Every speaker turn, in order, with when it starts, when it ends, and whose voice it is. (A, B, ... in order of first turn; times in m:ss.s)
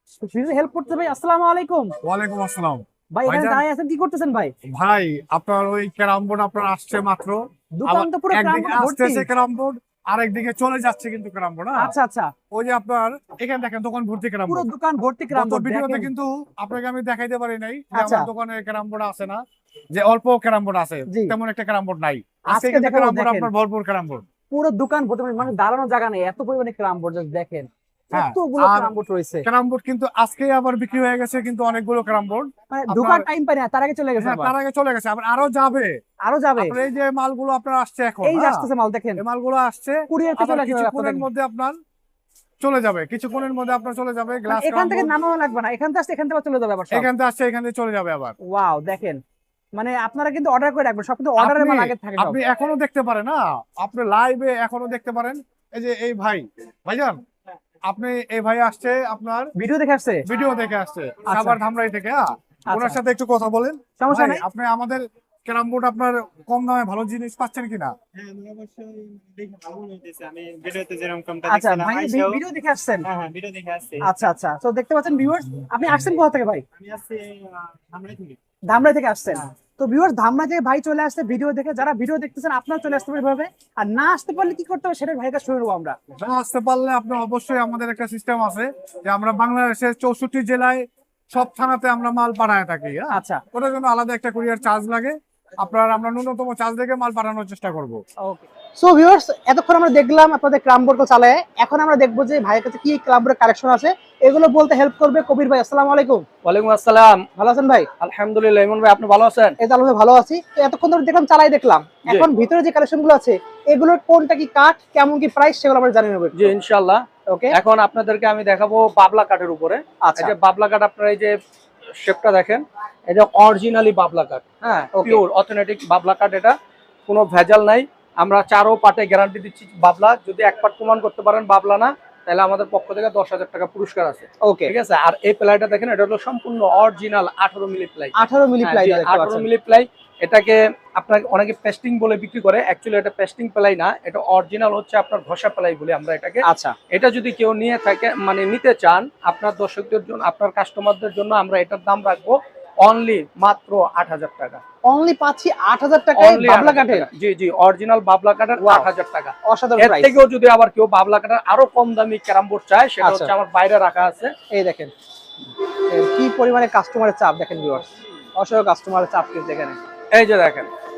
0:00.2-0:01.9 A
0:02.0-0:03.6 B
0:03.2-0:04.5 A
0:04.7-0:12.0 B
0:07.8-0:09.3 A
0:11.8-0:12.3 A
0:12.5-0:14.7 B
0:14.5-0:16.1 A
0:15.3-0:19.4 B
0:18.0-0:18.3 A
0:19.9-0:24.2 B
0:21.1-0:21.4 A
0:22.5-0:23.5 A
0:24.5-0:29.5 A
0:28.1-0:28.9 B
0:29.4-0:33.3 B
0:32.7-0:34.5 A
0:34.2-0:36.0 B
0:36.2-0:36.8 A
0:36.6-0:41.8 B
0:38.2-0:39.2 A
0:40.1-0:41.3 A
0:42.6-0:45.1 B
0:44.5-0:47.1 A
0:46.9-0:48.4 B
0:48.5-0:49.2 A
0:49.8-0:52.4 A
0:51.4-0:57.2 B
0:57.9-0:59.5 B
0:59.6-1:00.2 A
1:00.3-1:08.0 B
1:01.3-1:01.6 A
1:02.7-1:03.0 A
1:04.0-1:04.4 A
1:08.2-1:12.4 C
1:11.5-1:13.1 A
1:13.0-1:14.0 C
1:14.0-1:16.6 A
1:16.8-1:18.4 C
1:18.7-1:26.0 A
1:26.2-1:38.0 B
1:33.1-1:33.4 A
1:38.2-1:46.3 A
1:46.4-1:47.3 D
1:47.4-1:47.9 A
1:48.0-1:49.6 D
1:49.6-1:56.5 A
1:56.3-2:01.4 D
1:57.3-1:57.6 A
2:00.0-2:00.3 A
2:02.0-2:06.6 D
2:05.0-2:05.2 A
2:07.1-2:34.6 D
2:14.5-2:14.7 A
2:18.2-2:19.5 A
2:26.4-2:26.8 A
2:34.9-2:37.1 A
2:36.2-2:44.3 D
2:38.6-2:38.9 A
2:39.5-2:40.1 A
2:43.0-2:43.3 A
2:44.5-2:44.9 A
2:45.9-2:47.9 A
2:48.4-2:49.8 A
2:50.1-2:50.7 D